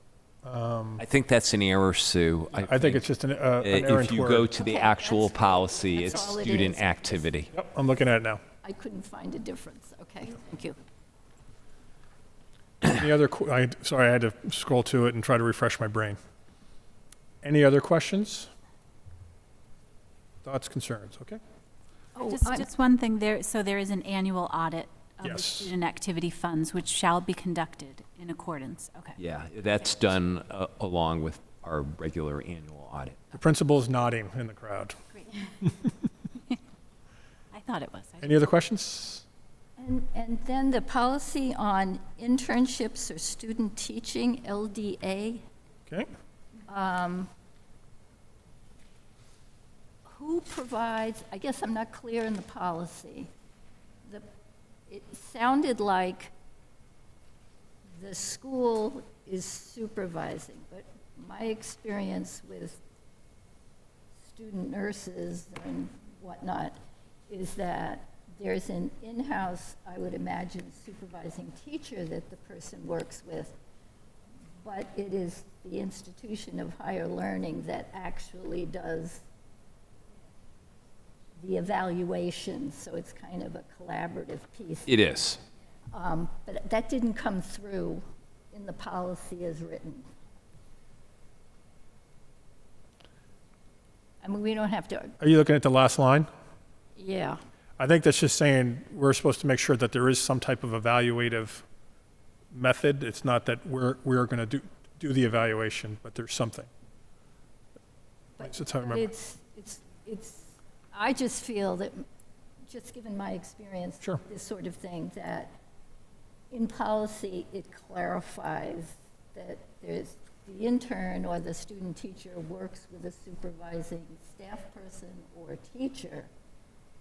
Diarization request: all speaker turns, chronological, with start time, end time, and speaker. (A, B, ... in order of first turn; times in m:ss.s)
0:00.4-0:01.0 A
0:01.0-0:03.0 B
0:02.6-0:04.5 A
0:03.6-0:07.5 B
0:04.6-0:07.3 C
0:07.5-0:08.4 A
0:08.6-0:10.8 C
0:12.8-0:16.2 A
0:17.4-0:18.5 A
0:20.4-0:21.4 A
0:22.2-0:22.7 C
0:22.2-0:29.2 D
0:25.2-0:25.7 A
0:29.2-0:33.2 B
0:33.3-0:35.0 A
0:35.2-0:35.7 D
0:37.5-0:38.4 D
0:38.2-0:39.2 A
0:39.8-0:45.4 C
0:46.7-0:47.3 C
0:50.1-0:53.3 C
0:54.9-0:56.3 C
0:58.0-1:02.8 C
1:04.2-1:06.8 C
1:07.3-1:13.6 C
1:14.6-1:19.2 C
1:21.4-1:25.3 C
1:24.9-1:25.4 B
1:25.9-1:30.1 C
1:34.2-1:35.1 C
1:35.2-1:36.3 A
1:37.0-1:37.4 C
1:37.8-1:41.6 A
1:42.5-1:46.7 A
1:48.4-1:52.0 C
1:48.4-1:49.1 A
1:52.7-1:55.5 C
1:56.5-2:06.3 C